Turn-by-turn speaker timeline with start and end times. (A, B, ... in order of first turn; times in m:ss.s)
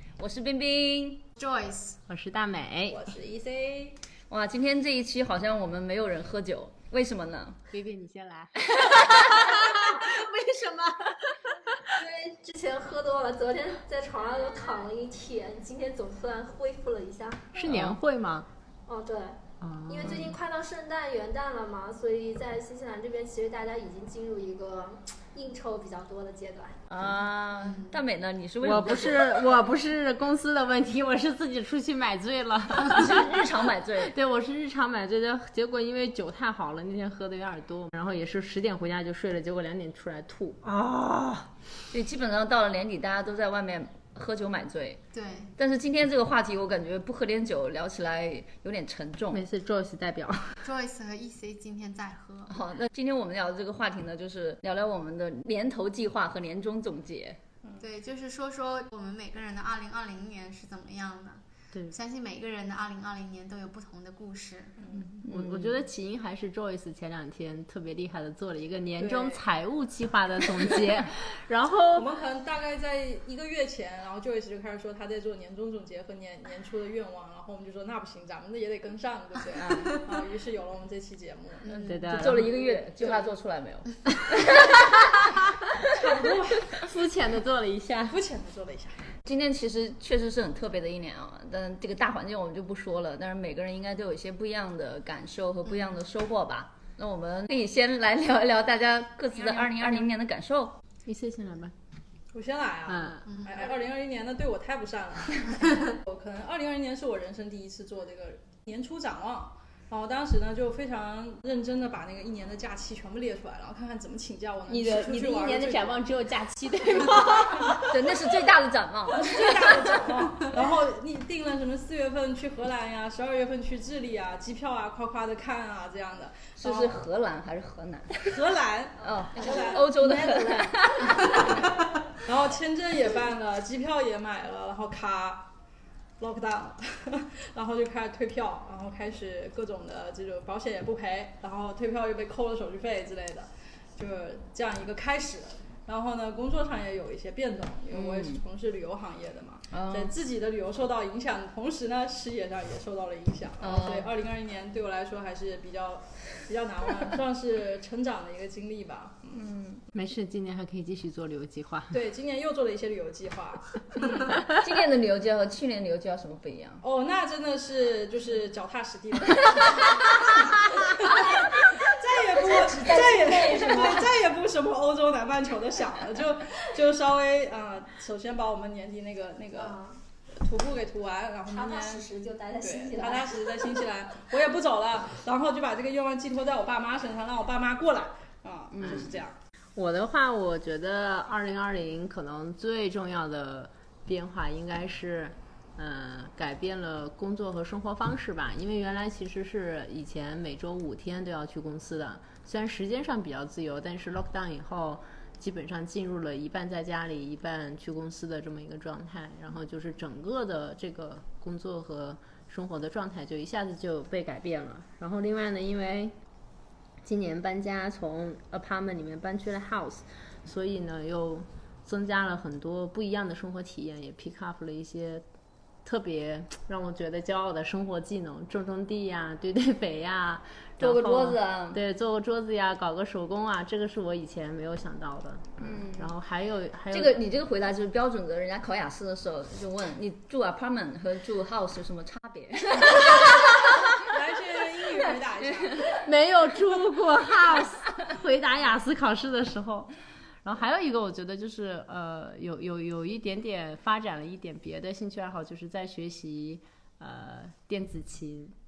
0:00.2-0:01.3 A
0:01.4-0:02.0 B
0:02.1-0:03.1 C
0:02.9-0:04.0 D
0:04.3-0:07.6 A
0:07.7-0:09.9 C
0:08.8-0:09.5 A
0:11.9-0:17.6 E
0:17.5-0:18.5 C
0:18.9-0:26.8 E
0:19.6-0:20.4 C
0:26.9-0:29.3 A
0:28.6-0:41.5 C
0:32.8-0:34.2 A
0:41.9-0:45.0 A
0:45.1-0:45.5 B
0:45.6-0:49.4 A
0:49.3-0:50.6 C
0:50.6-0:52.5 B
0:52.5-0:57.4 A
0:57.8-1:04.8 B
1:04.8-1:05.1 D
1:05.2-1:12.1 C
1:05.2-1:05.8 A
1:09.0-1:09.4 D
1:10.5-1:11.1 D
1:11.9-1:21.6 D
1:21.6-1:22.0 B
1:21.7-1:25.2 A
1:21.8-1:22.6 C
1:22.8-1:23.2 D
1:26.0-1:26.7 D
1:26.7-1:28.2 C
1:28.1-1:29.0 D
1:29.2-1:40.8 A
1:39.3-1:39.9 B
1:41.0-1:41.7 C
1:42.3-1:56.0 D
1:42.9-1:43.3 C
1:43.3-1:43.7 B
1:54.7-1:57.9 C
1:57.2-1:57.9 D
1:57.7-1:59.8 A
1:59.1-2:07.0 D
2:06.6-2:08.3 A
2:08.2-2:15.5 D
2:09.0-2:11.6 A
2:16.2-2:39.3 D
2:27.9-2:28.4 A
2:29.7-2:30.1 A
2:33.6-2:34.1 A
2:39.3-2:39.8 A
2:39.9-2:42.0 C
2:41.9-2:44.5 D
2:44.3-2:46.8 A
2:46.8-2:59.8 D
2:52.3-2:54.1 E
2:59.5-3:00.0 E
3:00.3-3:02.0 D
3:01.5-3:03.4 E
3:02.6-3:09.4 D
3:08.7-3:09.2 A
3:09.7-3:36.1 C
3:37.0-3:45.2 C
3:45.8-3:57.2 C
3:50.8-3:51.8 A
3:55.6-3:56.1 A
3:56.9-4:03.6 A
4:03.9-4:06.0 D
4:06.0-4:09.9 C
4:10.4-4:18.5 C